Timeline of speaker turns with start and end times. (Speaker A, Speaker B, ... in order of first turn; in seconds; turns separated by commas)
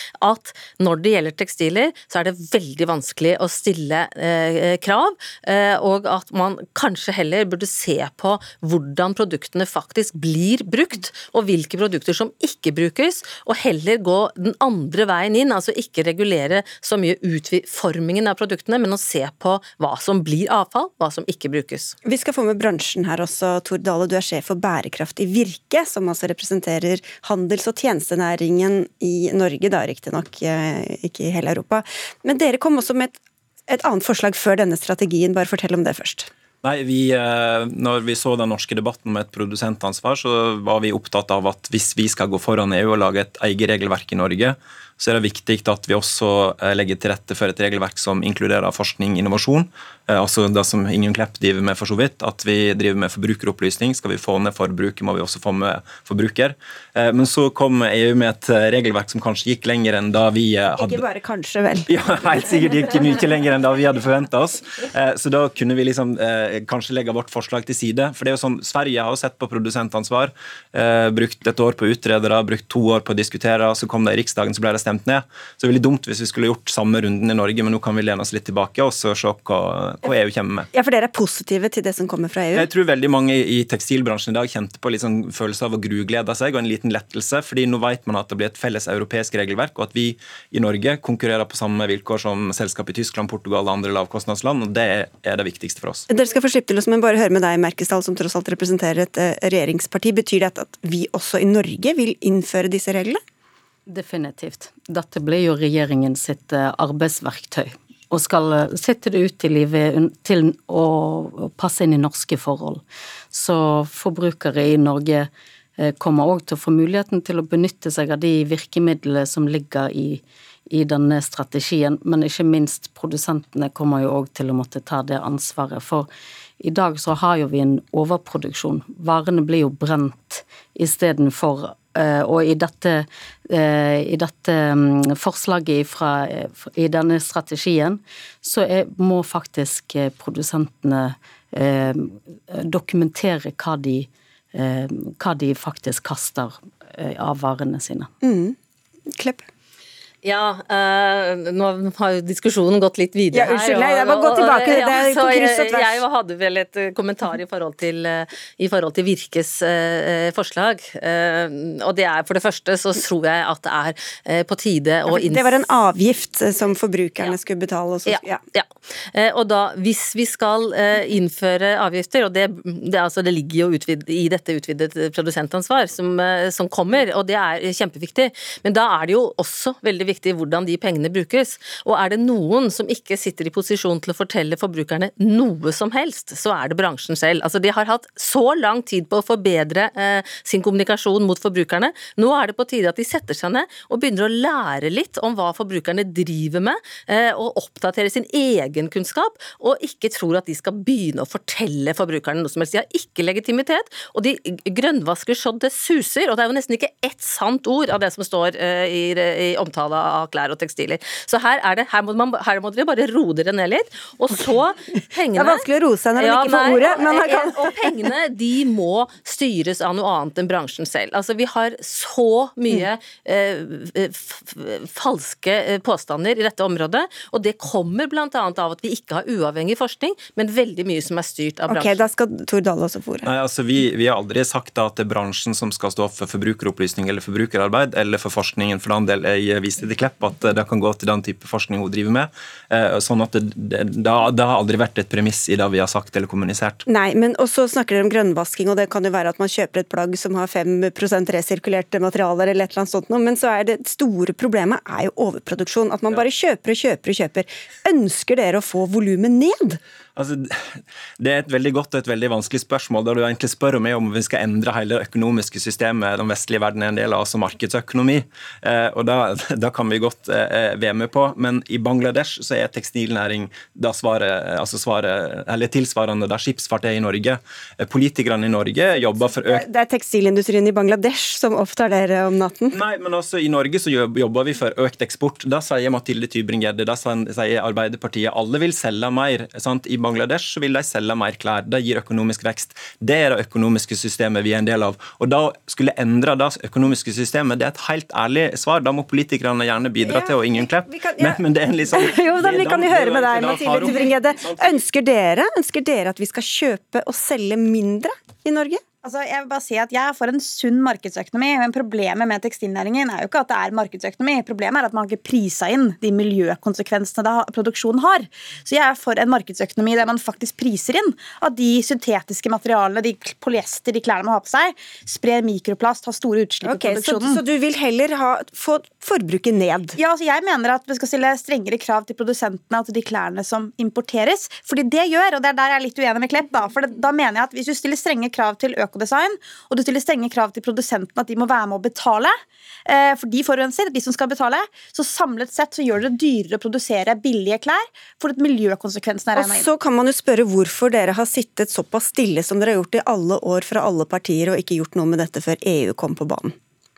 Speaker A: 0.2-22.0, Speaker B: 22.0-36.3, Speaker C: 36.6-61.0, Speaker B: 60.7-61.9, Speaker C: 61.9-80.7, Speaker B: 80.7-82.7, Speaker C: 82.5-96.0, Speaker B: 96.1-103.2, Speaker D: 103.9-148.1, Speaker B: 148.2-148.6, Speaker B: 149.1-149.4, Speaker A: 150.2-165.7, Speaker B: 153.3-156.0, Speaker B: 165.1-168.4, Speaker A: 168.1-215.6, Speaker B: 215.3-218.1, Speaker A: 216.2-232.0, Speaker B: 231.7-233.3, Speaker C: 233.2-246.8, Speaker B: 246.9-259.8, Speaker C: 260.1-279.6, Speaker B: 279.4-282.8, Speaker C: 282.7-304.8, Speaker B: 300.0-308.8, Speaker E: 309.0-327.4, Speaker B: 326.6-330.0, Speaker E: 330.0-349.7, Speaker B: 349.4-356.5